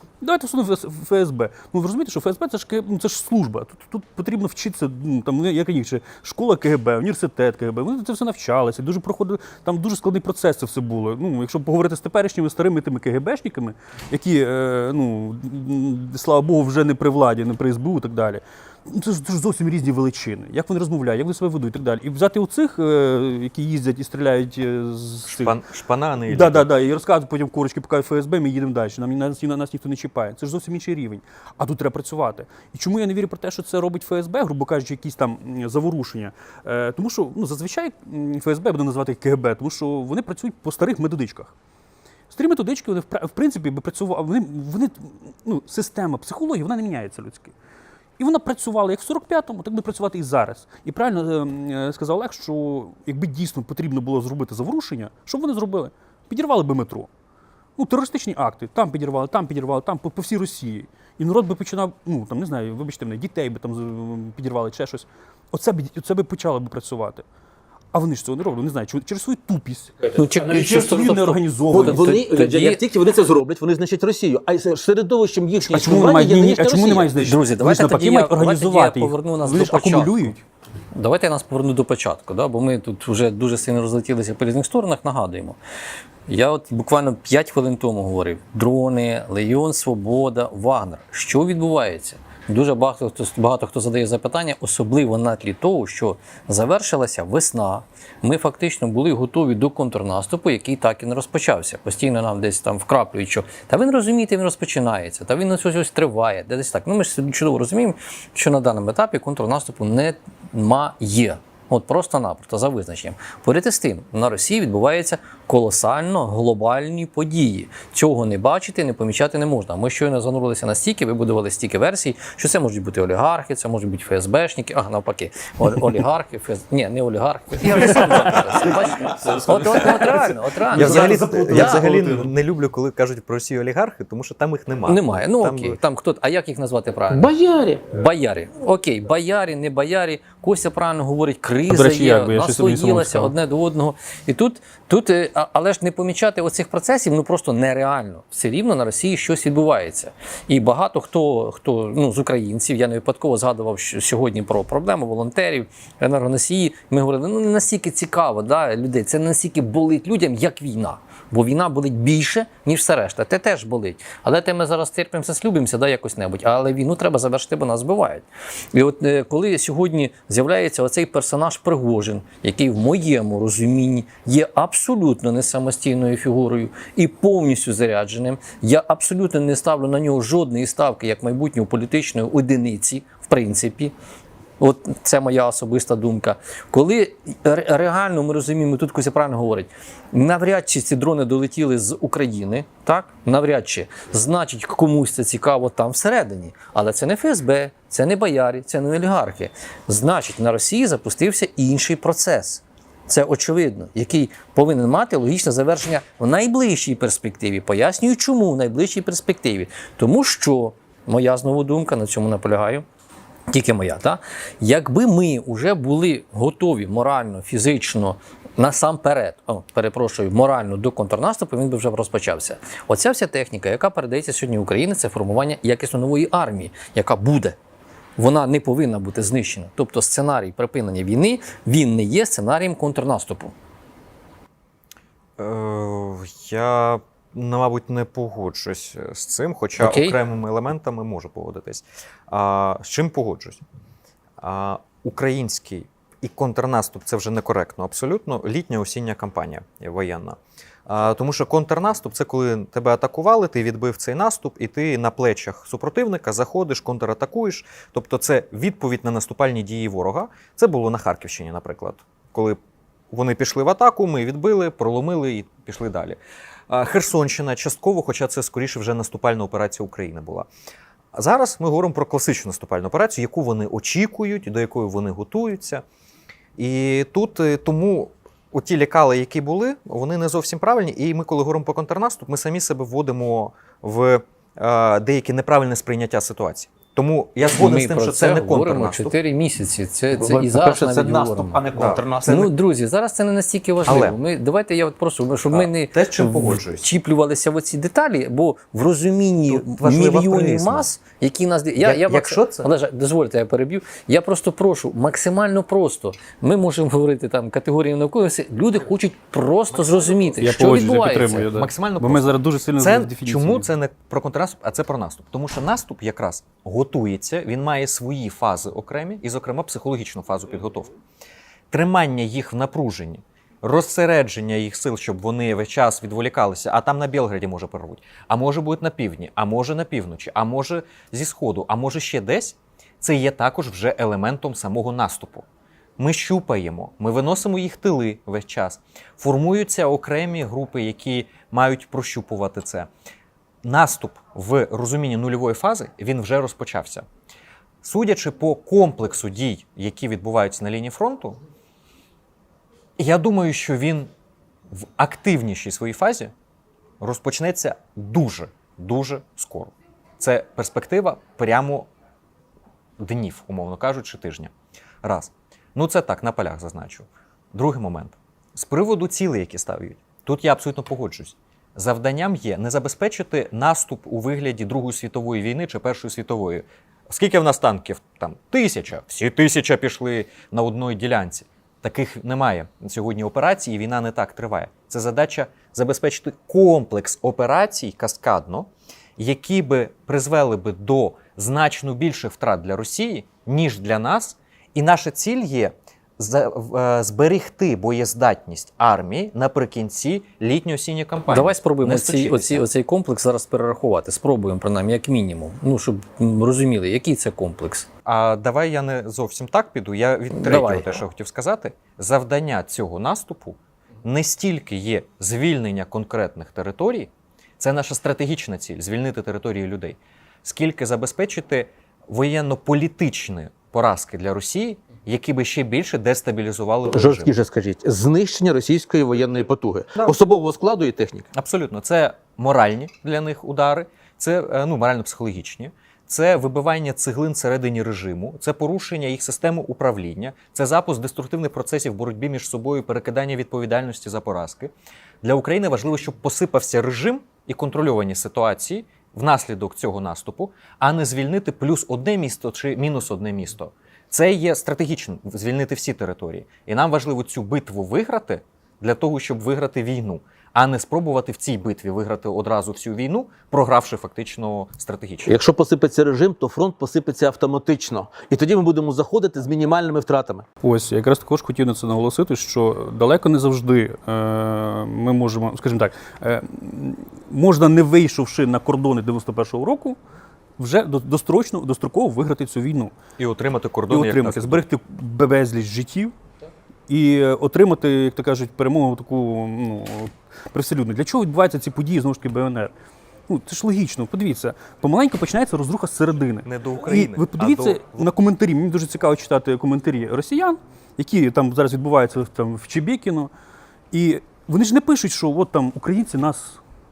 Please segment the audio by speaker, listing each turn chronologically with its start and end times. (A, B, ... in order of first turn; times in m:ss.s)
0:00.2-0:25.5 A
0:25.2-0:26.7 B
0:26.2-0:41.5 A
0:42.3-0:47.5 A
0:48.2-0:57.1 A
0:57.8-1:07.2 A
1:07.9-1:12.1 A
1:10.1-1:12.9 C
1:11.7-1:17.2 D
1:15.6-1:20.4 A
1:17.2-1:20.4 C
1:20.9-1:25.6 C
1:26.3-2:11.9 C
2:10.7-2:15.8 B
2:10.8-2:11.3 D
2:14.8-2:17.3 C
2:17.1-2:17.8 D
2:17.9-3:03.9 C
2:21.7-2:23.3 A
3:04.6-3:32.8 C
3:33.5-3:47.6 C
3:48.2-3:53.5 C
3:55.4-4:03.6 B
3:59.8-4:00.2 C
4:04.4-4:22.6 B
4:23.1-4:26.2 B
4:26.7-4:30.5 B
4:31.1-4:35.8 B
4:36.6-4:49.2 B
4:47.4-5:11.5 C
4:50.2-4:52.3 D
4:51.8-4:52.5 B
4:53.8-4:54.2 B
4:55.5-4:56.9 B
4:59.5-5:00.9 B
5:01.8-5:02.7 B
5:09.8-5:20.9 B
5:10.4-5:13.7 A
5:21.7-5:35.4 B
5:36.0-5:42.9 B
5:43.6-5:47.0 B
5:47.8-5:51.4 B
5:53.0-5:54.1 B
5:54.7-5:56.3 B
5:57.0-6:01.9 B
6:03.0-6:04.5 B
6:05.0-6:42.6 B
6:41.3-6:47.9 C
6:48.0-7:07.3 B
6:50.3-6:50.9 C
7:06.9-7:11.3 D
7:10.0-7:10.2 B
7:11.3-7:45.4 B
7:45.2-7:50.4 D
7:50.6-8:00.0 A
8:00.6-8:02.9 A
8:03.2-8:04.6 B
8:03.9-8:06.1 A
8:06.9-8:12.7 A
8:13.3-8:23.3 A
8:16.4-8:18.1 B
8:23.9-8:26.6 A